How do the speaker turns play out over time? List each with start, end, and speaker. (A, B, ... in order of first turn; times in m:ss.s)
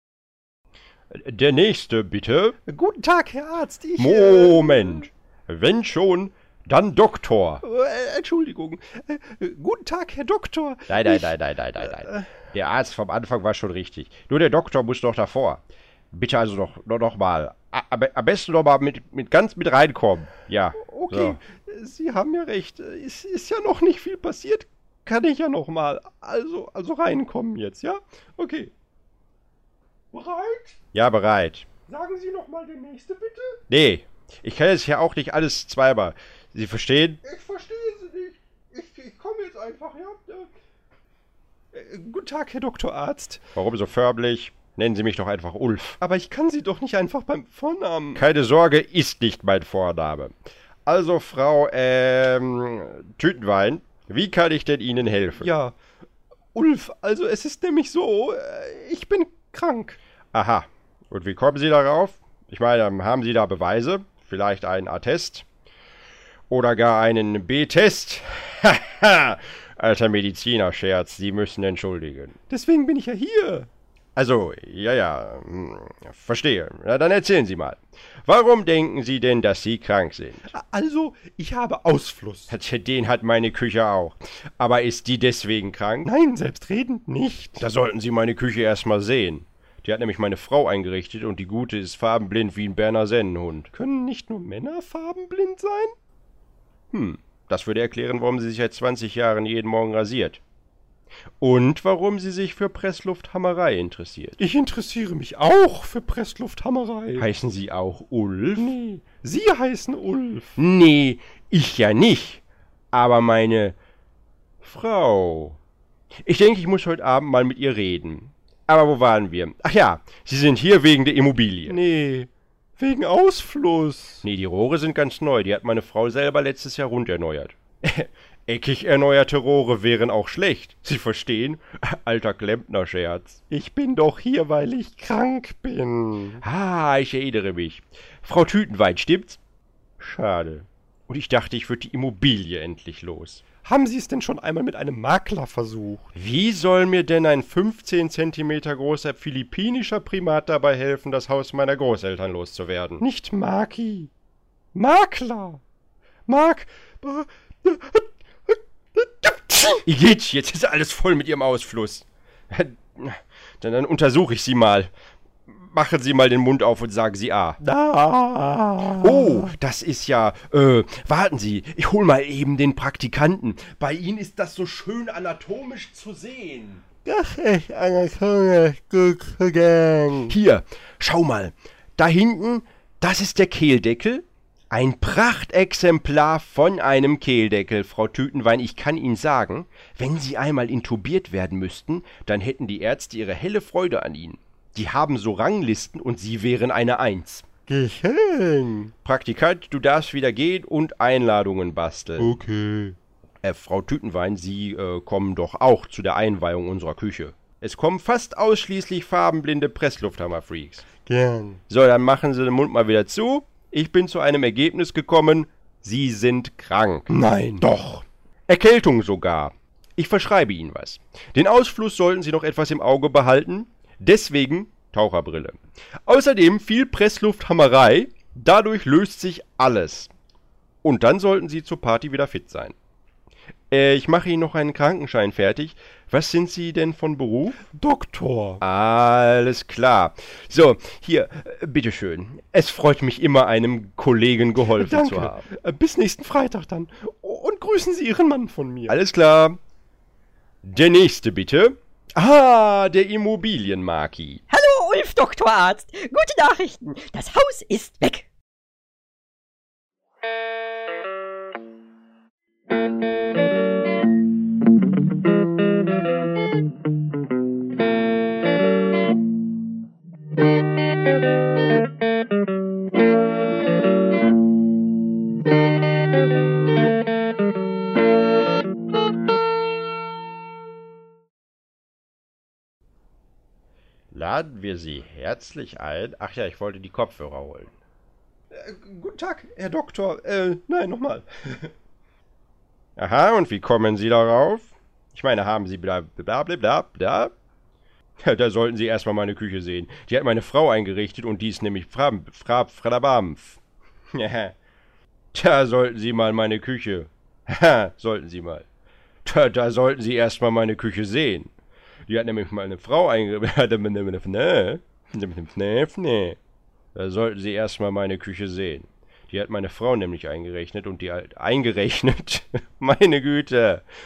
0:01.1-0:02.6 A
0:02.7-0:05.1 B
0:04.0-0:07.6 A
0:07.6-0:12.3 B
0:10.9-0:21.4 A
0:20.8-0:28.7 B
0:30.1-0:30.8 B
0:30.9-0:31.7 A
0:31.9-0:33.6 B
0:33.7-0:37.2 A
0:37.2-0:40.5 B
0:41.7-0:43.4 B
0:43.6-0:46.0 A
0:46.0-0:48.2 B
0:48.1-0:50.3 A
0:50.9-0:55.5 A
0:55.4-0:55.8 B
0:56.6-1:00.0 B
1:00.3-1:05.4 A
1:06.5-1:12.4 A
1:12.5-1:13.7 B
1:14.2-1:20.5 A
1:20.5-1:22.5 B
1:22.5-1:26.1 A
1:26.1-1:27.6 B
1:27.6-1:33.7 A
1:33.7-1:35.9 B
1:36.9-1:40.4 A
1:41.4-1:44.4 A
1:44.4-1:47.2 B
1:47.2-1:48.7 A
1:48.6-1:50.6 B
1:50.6-1:53.8 A
1:54.6-1:55.6 A
1:56.2-2:01.8 A
2:01.7-2:04.2 B
2:04.2-2:13.4 A
2:13.5-2:16.4 B
2:16.4-2:19.4 A
2:20.0-2:23.5 A
2:23.6-2:26.1 B
2:26.2-2:33.0 A
2:33.0-2:34.1 B
2:34.8-2:35.6 B
2:36.3-2:38.0 B
2:39.0-2:39.8 B
2:39.8-2:44.9 A
2:45.5-2:47.6 A
2:47.6-2:49.5 B
2:49.0-2:56.8 A
2:57.1-3:00.3 B
3:00.3-3:17.5 A
3:17.7-3:18.9 B
3:19.0-3:22.3 A
3:22.2-3:23.0 B
3:23.4-3:30.9 A
3:31.1-3:31.6 B
3:31.7-3:50.1 A
3:50.8-3:52.8 A
3:53.7-3:57.6 A
3:57.7-3:58.6 B
3:58.6-4:05.4 A
4:04.7-4:08.9 B
4:08.9-4:09.6 A
4:10.6-4:14.4 A
4:14.5-4:18.2 C
4:44.1-4:47.8 A
4:48.5-4:51.7 B
4:53.0-4:57.3 A
4:58.2-5:03.6 A
5:04.1-5:04.6 A
5:05.3-5:08.6 A
5:09.2-5:11.5 A
5:12.1-5:16.4 A
5:16.9-5:23.8 A